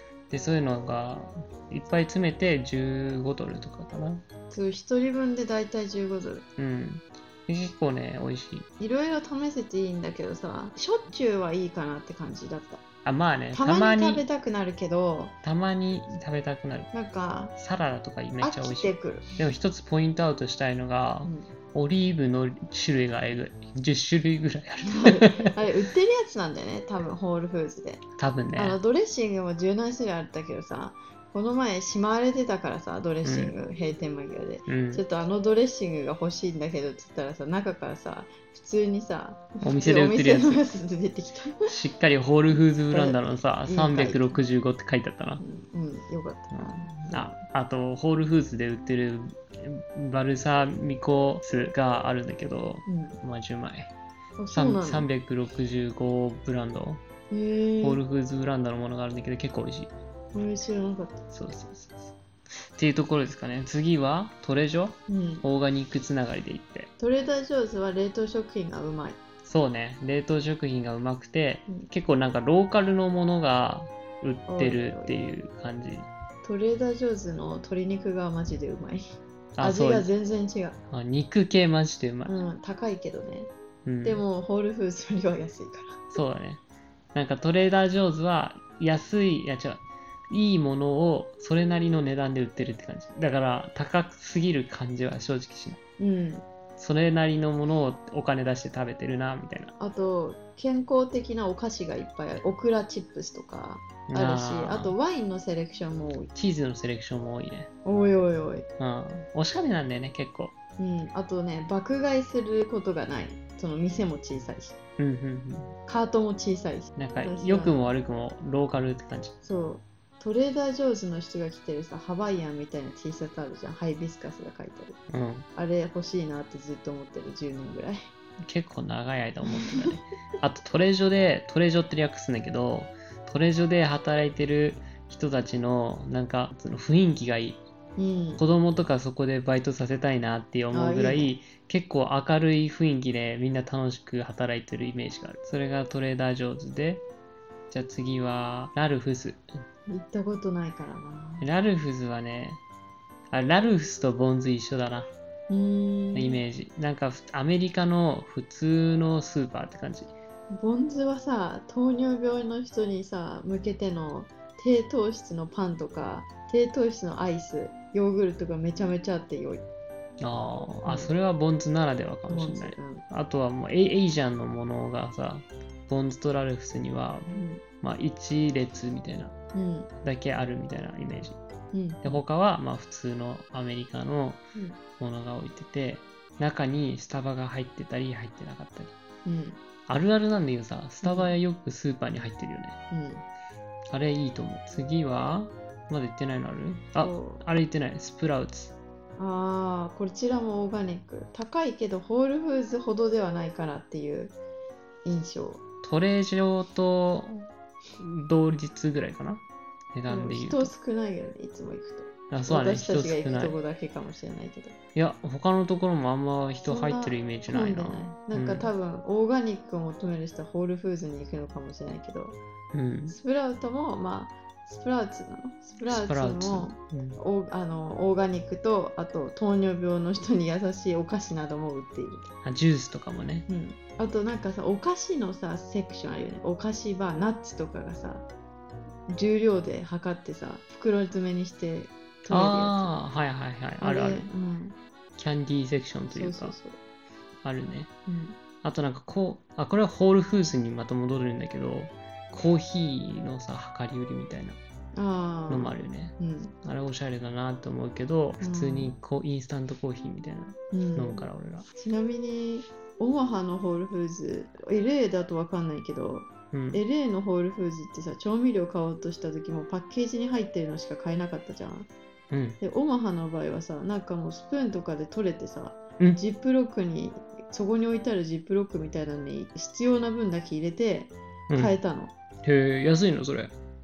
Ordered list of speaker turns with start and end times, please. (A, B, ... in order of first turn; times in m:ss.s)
0:00.3-0:04.2 A
0:04.5-0:06.4 B
0:06.6-0:08.7 A
0:08.8-0:12.8 B
0:13.0-0:14.3 A
0:13.5-0:15.3 B
0:15.4-0:16.9 A
0:16.9-0:17.5 B
0:17.6-0:25.6 A
0:18.4-0:19.3 B
0:24.9-0:28.0 B
0:28.2-0:28.8 A
0:28.6-0:41.7 B
0:33.2-0:33.5 A
0:34.7-0:35.0 A
0:39.6-0:40.6 A
0:41.7-0:45.4 A
0:42.5-0:44.4 B
0:45.4-0:47.2 B
0:46.5-0:53.9 A
0:52.8-0:53.2 B
0:54.4-0:55.1 B
0:54.5-0:57.0 A
0:57.3-0:58.0 B
0:57.8-0:59.9 A
1:00.3-1:01.2 B
1:01.3-1:02.1 A
1:02.8-1:06.9 A
1:05.1-1:05.4 B
1:07.0-1:09.2 B
1:09.4-1:16.1 A
1:14.5-1:15.2 B
1:16.4-1:19.1 B
1:19.6-1:20.1 A
1:19.6-1:20.8 B
1:20.9-1:22.3 A
1:22.2-1:23.5 B
1:23.8-1:24.2 A
1:24.0-1:26.2 B
1:26.1-1:26.6 A
1:27.1-1:35.8 A
1:36.0-1:36.4 B
1:36.8-1:39.7 A
1:39.8-1:46.3 B
1:44.1-1:45.0 A
1:46.3-1:47.7 A
1:47.8-1:48.7 B
1:48.8-1:50.5 A
1:50.8-1:54.8 B
1:55.0-1:55.7 A
1:55.9-1:57.8 B
1:57.0-1:59.3 A
1:59.4-2:05.0 B
2:05.1-2:05.4 A
2:05.5-2:08.1 B
2:08.4-2:17.6 A
2:09.4-2:10.0 B
2:18.0-2:18.4 B
2:18.4-2:27.0 A
2:20.7-2:21.3 B
2:27.7-2:29.4 A
2:29.9-2:31.5 B
2:31.4-2:32.6 A
2:33.3-2:35.1 A
2:35.5-2:36.4 B
2:36.1-2:40.1 A
2:40.5-2:49.6 B
2:50.2-2:59.3 A
2:50.8-2:51.1 B
2:52.3-2:53.0 B
2:57.3-2:57.6 B
2:59.5-2:59.9 B
3:00.0-3:01.4 A
3:01.7-3:02.2 B
3:02.0-3:04.4 A
3:05.0-3:08.9 A
3:09.2-3:09.6 B
3:09.9-3:12.8 A
3:11.0-3:11.3 B
3:12.9-3:13.2 B
3:13.9-3:18.8 A
3:17.0-3:17.4 B
3:19.2-3:24.3 B
3:25.0-3:25.6 B
3:25.8-3:30.7 A
3:30.1-3:34.7 B
3:32.3-3:33.6 A
3:34.9-3:38.7 A
3:36.6-3:42.4 B
3:42.7-3:43.2 A
3:43.1-3:52.3 B
3:45.9-3:47.2 A
3:52.4-3:53.5 A
3:53.5-3:58.2 B
3:59.1-4:02.9 B
4:02.3-4:04.3 A
4:03.8-4:04.8 B
4:05.2-4:06.6 A
4:06.1-4:06.8 B
4:07.4-4:07.9 A
4:08.1-4:08.4 B
4:08.6-4:14.6 A
4:14.9-4:16.5 B
4:15.5-4:21.7 A
4:18.4-4:19.0 B
4:20.7-4:31.9 B
4:26.5-4:26.8 A
4:32.3-4:32.6 A
4:32.6-4:42.1 B
4:41.5-4:41.8 A
4:42.4-4:43.5 A